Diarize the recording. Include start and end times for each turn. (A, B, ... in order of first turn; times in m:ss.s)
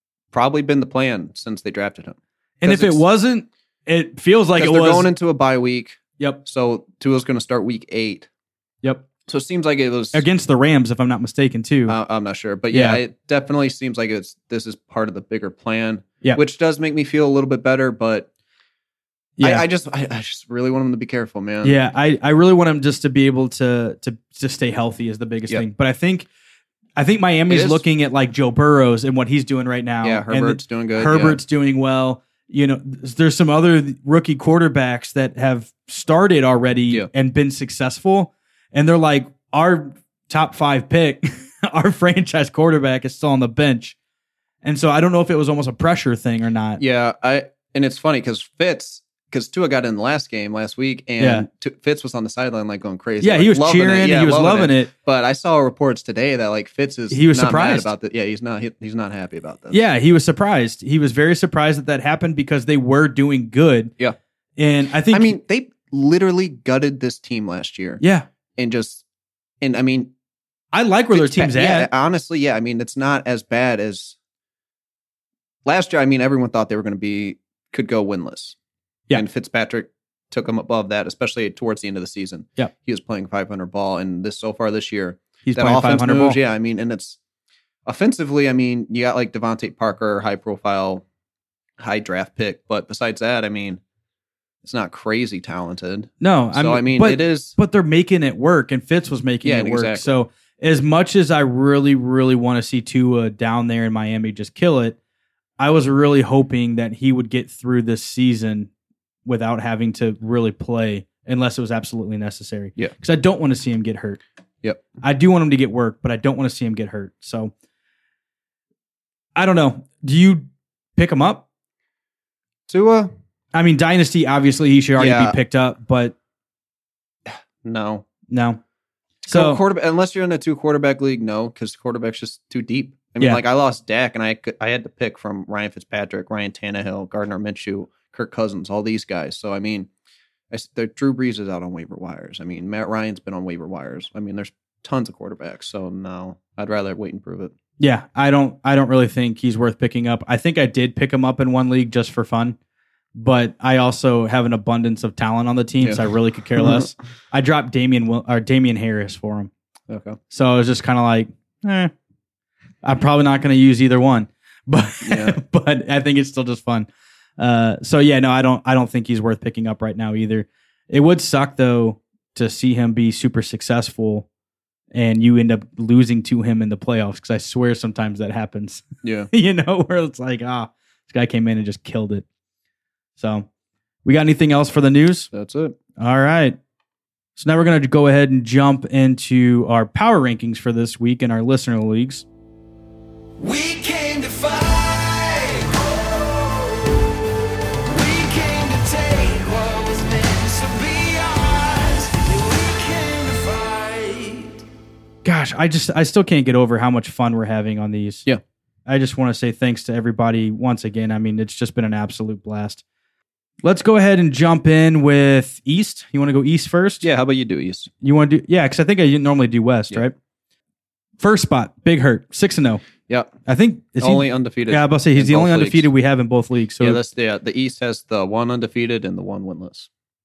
0:00.3-0:03.0 A
0:02.6-0:05.1 B
0:04.6-0:08.3 A
0:09.2-0:10.2 A
0:10.1-0:12.0 B
0:11.9-0:18.3 A
0:12.7-0:13.0 B
0:19.4-0:19.6 B
0:19.4-0:21.8 A
0:21.6-0:26.3 B
0:27.0-0:44.0 B
0:27.5-0:27.8 A
0:30.0-0:31.4 A
0:44.6-0:46.8 B
0:46.8-0:59.8 A
0:51.2-0:51.5 B
0:53.2-0:54.9 B
0:57.1-0:57.9 B
0:59.7-1:03.9 B
1:04.6-1:05.4 B
1:05.1-1:08.0 A
1:08.0-1:08.3 B
1:08.6-1:09.0 A
1:09.6-1:10.1 A
1:10.7-1:11.9 B
1:11.1-1:14.2 A
1:15.6-1:18.6 A
1:19.1-1:27.2 A
1:25.4-1:26.4 B
1:27.8-1:31.0 A
1:31.8-1:33.8 A
1:34.6-1:37.6 A
1:36.2-1:45.0 B
1:39.4-1:40.1 A
1:45.6-1:48.7 B
1:49.2-1:54.2 B
1:55.0-1:57.5 B
1:59.4-2:01.4 B
2:02.7-2:03.1 A
2:03.5-2:06.1 B
2:05.0-2:05.4 A
2:07.3-2:08.1 A
2:08.3-2:08.6 B
2:09.2-2:19.9 A
2:09.2-2:09.6 B
2:20.5-2:27.5 A
2:27.8-2:32.6 B
2:33.1-2:39.5 B
2:35.8-2:36.9 A
2:39.9-2:40.2 A
2:40.3-2:41.9 B
2:42.8-2:54.3 B
2:45.0-2:45.4 A
2:54.9-3:02.2 B
2:59.0-2:59.3 A
3:03.2-3:03.5 B
3:04.0-3:05.3 B
3:05.3-3:05.8 A
3:06.0-3:06.6 B
3:07.4-3:12.2 B
3:13.4-3:16.9 C
3:17.9-3:24.6 C
3:25.2-3:28.2 B
3:28.9-3:32.8 B
3:33.6-3:37.0 B
3:37.0-3:37.9 A
3:38.0-3:40.1 B
3:41.2-3:42.8 B
3:43.4-3:47.0 B
3:44.0-3:45.9 A
3:46.8-3:49.9 A